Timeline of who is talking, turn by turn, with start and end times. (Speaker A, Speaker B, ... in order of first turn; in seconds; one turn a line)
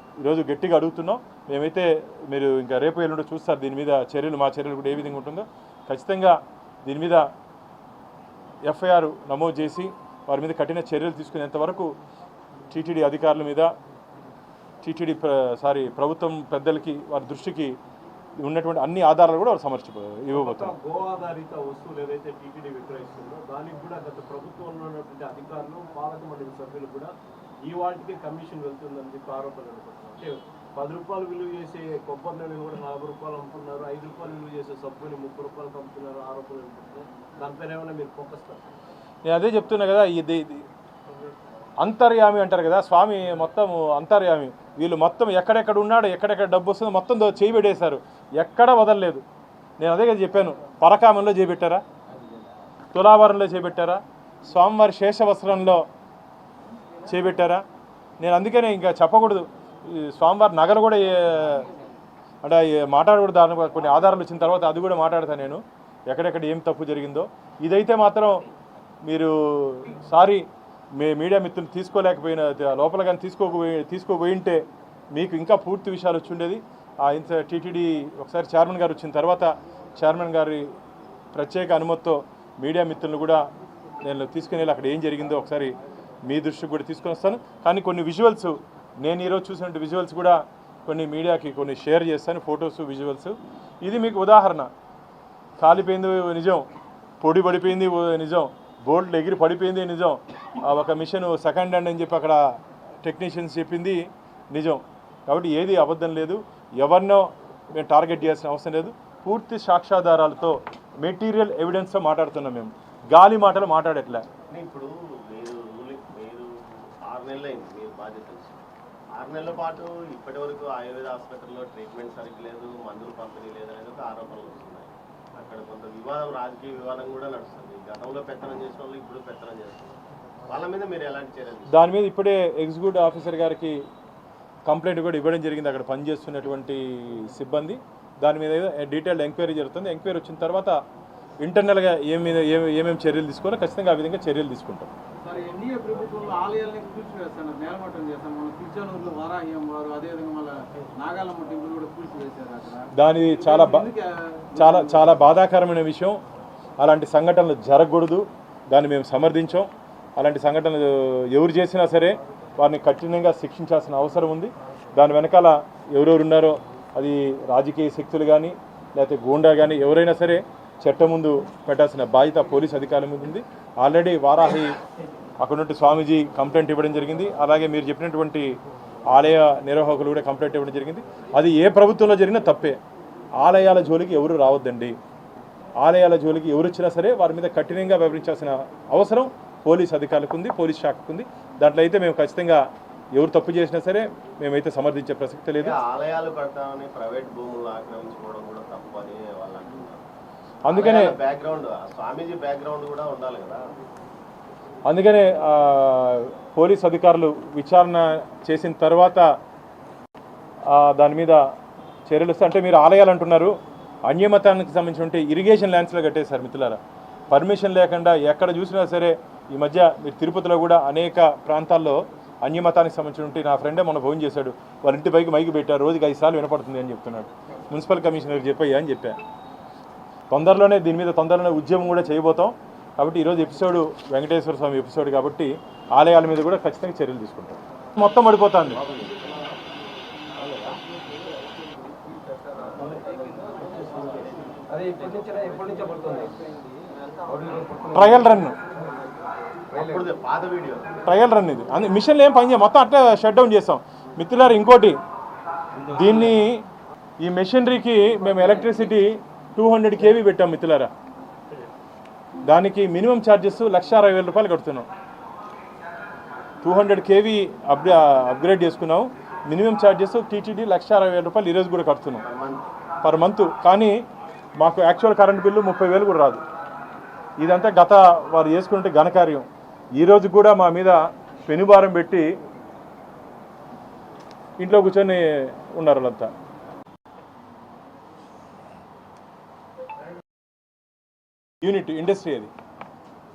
Speaker A: 0.2-7.2
Speaker A: 8.7-11.9
Speaker A: 12.7-13.7
Speaker A: 14.8-17.8
Speaker A: 18.4-20.7
Speaker B: 20.3-27.1
Speaker B: 27.7-38.7
Speaker A: 39.3-40.6
Speaker A: 41.8-49.2
Speaker A: 49.8-51.8
Speaker A: 52.9-55.9
Speaker A: 57.1-57.6
Speaker A: 58.2-61.7
Speaker A: 62.4-68.4
Speaker A: 69.0-70.5
Speaker A: 71.0-80.7
Speaker A: 81.3-83.4
Speaker A: 84.0-85.7
Speaker A: 86.3-94.7
Speaker A: 95.6-96.7
Speaker A: 97.2-102.4
Speaker A: 103.0-114.2
Speaker C: 114.5-116.5
Speaker C: 117.0-118.6
Speaker C: 119.2-129.9
Speaker C: 130.5-131.7
Speaker A: 131.7-133.8
Speaker A: 134.7-140.8
Speaker A: 141.4-144.9
Speaker D: 145.2-152.9
Speaker A: 152.9-153.9
Speaker D: 153.5-154.1
Speaker A: 154.6-156.2
Speaker A: 156.8-174.8
Speaker A: 175.4-178.6
Speaker A: 179.1-182.8
Speaker A: 183.4-184.9
Speaker A: 185.8-195.8
Speaker C: 195.6-200.0
Speaker A: 200.7-201.2
Speaker C: 200.7-203.6
Speaker A: 204.9-209.3
Speaker A: 210.7-211.4
Speaker A: 212.1-213.6
Speaker A: 214.1-229.2
Speaker A: 230.3-238.9
Speaker C: 238.9-239.2
Speaker B: 242.8-246.4
Speaker B: 247.3-247.8
Speaker D: 247.4-247.9
Speaker A: 247.9-248.6
Speaker C: 249.7-250.9
Speaker A: 251.1-255.0
Speaker A: 255.8-256.6
Speaker A: 257.2-260.9
Speaker A: 262.4-264.9
Speaker A: 266.6-272.2
Speaker C: 272.2-272.7
Speaker A: 273.0-274.0
Speaker A: 274.6-276.4
Speaker A: 277.4-279.4
Speaker A: 280.0-282.3
Speaker A: 284.6-286.3
Speaker A: 291.6-292.5